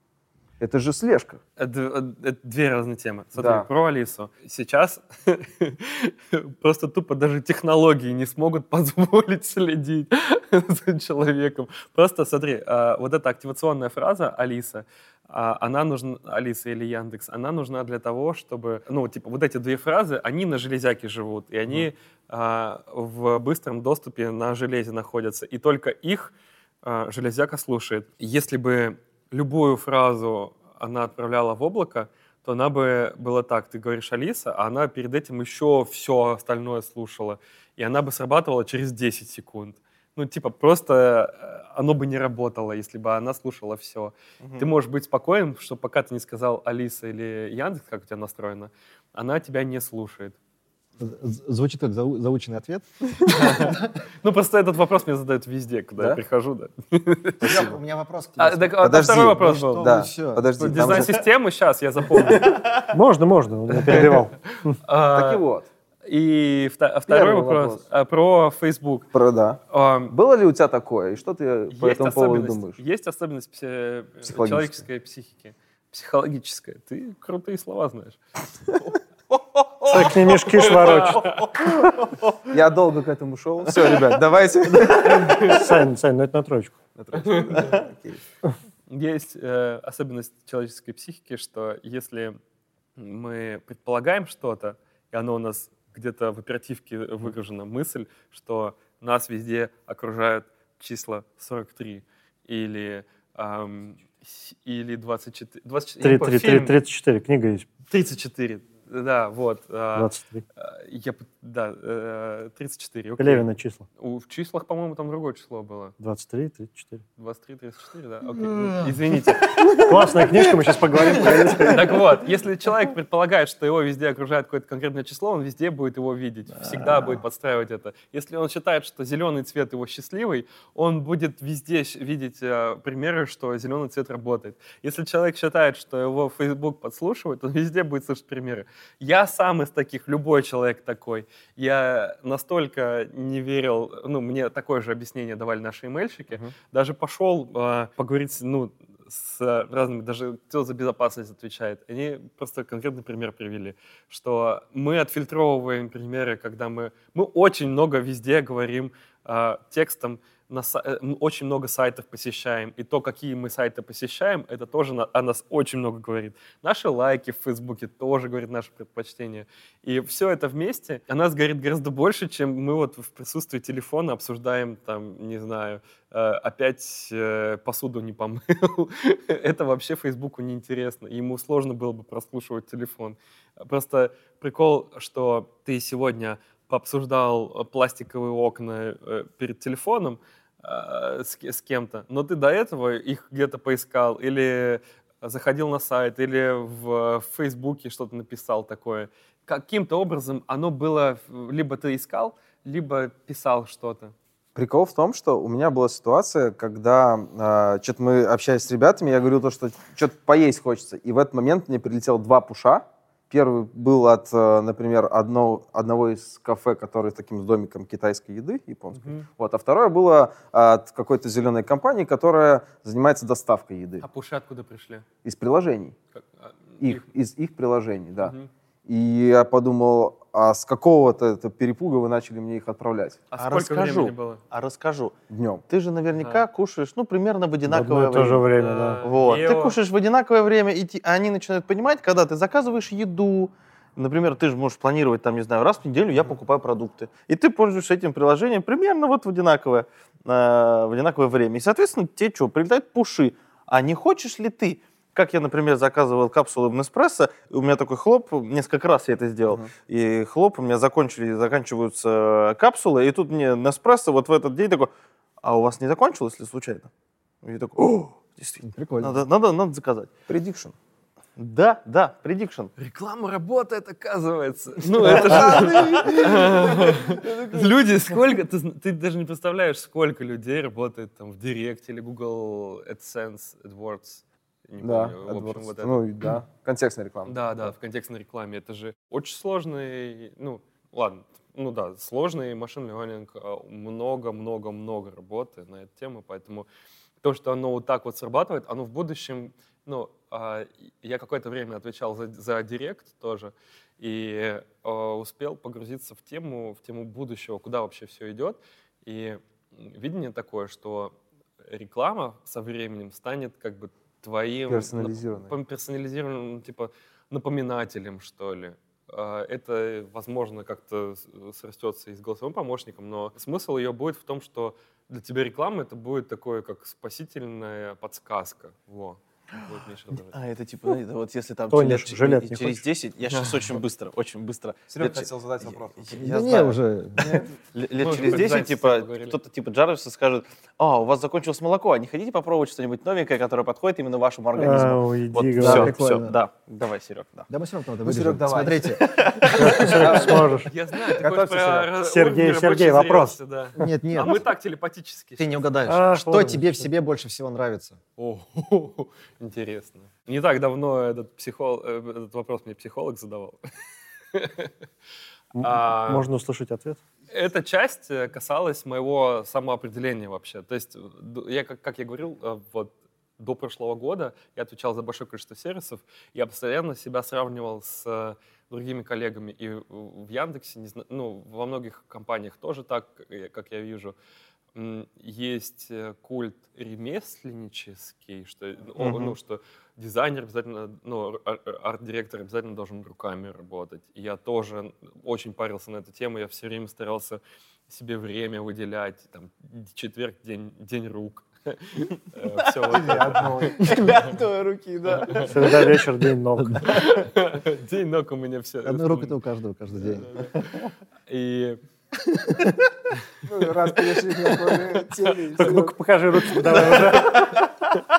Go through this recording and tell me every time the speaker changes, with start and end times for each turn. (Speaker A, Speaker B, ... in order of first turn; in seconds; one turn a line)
Speaker A: 0.6-1.4
Speaker B: 1.6-50.4
Speaker A: 3.4-3.7
Speaker C: 44.4-44.7
Speaker D: 51.0-53.9
Speaker B: 53.3-57.6
Speaker A: 57.4-57.8
Speaker D: 57.4-61.1
Speaker B: 58.4-60.0
Speaker A: 58.8-61.2
Speaker B: 60.6-62.6
Speaker E: 62.9-64.8
Speaker B: 63.9-65.4
Speaker A: 65.1-65.7
Speaker B: 66.0-69.1
Speaker A: 67.1-67.8
Speaker A: 69.1-72.8
Speaker B: 69.7-70.1
Speaker B: 71.7-78.2
Speaker A: 74.2-74.8
Speaker E: 79.8-81.5
Speaker B: 80.3-81.5
Speaker A: 82.5-85.6
Speaker B: 85.0-85.7
Speaker E: 85.3-86.8
Speaker A: 87.0-88.2
Speaker B: 87.1-87.8
Speaker B: 88.9-92.4
Speaker B: 93.0-106.8
Speaker E: 106.0-107.7
Speaker B: 107.9-113.5
Speaker E: 109.9-110.4
Speaker E: 113.2-113.8
Speaker B: 114.0-115.9
Speaker E: 116.0-117.0
Speaker B: 117.2-119.6
Speaker E: 119.8-122.1
Speaker B: 121.6-204.1
Speaker A: 204.5-224.0
Speaker B: 218.9-219.3
Speaker B: 224.0-225.1
Speaker A: 225.2-225.9
Speaker B: 226.1-227.0
Speaker A: 226.8-228.3
Speaker B: 228.2-228.5
Speaker A: 228.8-233.2
Speaker B: 233.3-234.4
Speaker C: 233.4-235.1
Speaker A: 235.3-235.6
Speaker C: 235.7-238.4
Speaker E: 237.7-239.0
Speaker B: 238.6-239.8
Speaker C: 239.0-264.9
Speaker C: 265.4-266.9
Speaker C: 267.4-270.1
Speaker D: 268.6-269.2
Speaker A: 270.3-270.7
Speaker C: 271.4-272.7
Speaker B: 272.8-286.0
Speaker A: 275.0-276.2
Speaker C: 275.1-276.3
Speaker C: 277.1-277.6
Speaker A: 284.8-287.7
Speaker B: 287.3-296.7
Speaker B: 297.2-311.1
Speaker B: 311.7-330.4
Speaker A: 314.7-315.5
Speaker C: 330.2-347.5
Speaker E: 331.7-332.8
Speaker A: 334.9-336.3
Speaker D: 336.2-337.4
Speaker B: 338.0-339.4
Speaker E: 344.6-345.9
Speaker D: 345.6-346.3
Speaker D: 347.5-349.1
Speaker A: 348.0-348.9
Speaker C: 349.1-350.1
Speaker E: 349.6-350.7
Speaker A: 349.8-350.6
Speaker B: 350.6-355.5
Speaker A: 351.1-351.9
Speaker E: 352.0-354.4
Speaker D: 353.8-354.4
Speaker D: 355.4-358.0
Speaker E: 355.9-356.9
Speaker B: 358.2-363.6
Speaker B: 364.3-364.7
Speaker E: 365.5-367.0
Speaker B: 365.6-366.3
Speaker B: 367.3-384.1
Speaker B: 384.7-404.1
Speaker C: 389.0-389.3
Speaker A: 402.9-405.6
Speaker B: 405.1-405.5
Speaker E: 405.4-407.1
Speaker B: 406.8-409.3
Speaker D: 408.8-410.6
Speaker B: 410.0-411.8
Speaker D: 412.5-412.8
Speaker A: 413.4-415.9
Speaker B: 415.2-415.5
Speaker E: 415.5-417.5
Speaker C: 417.1-417.7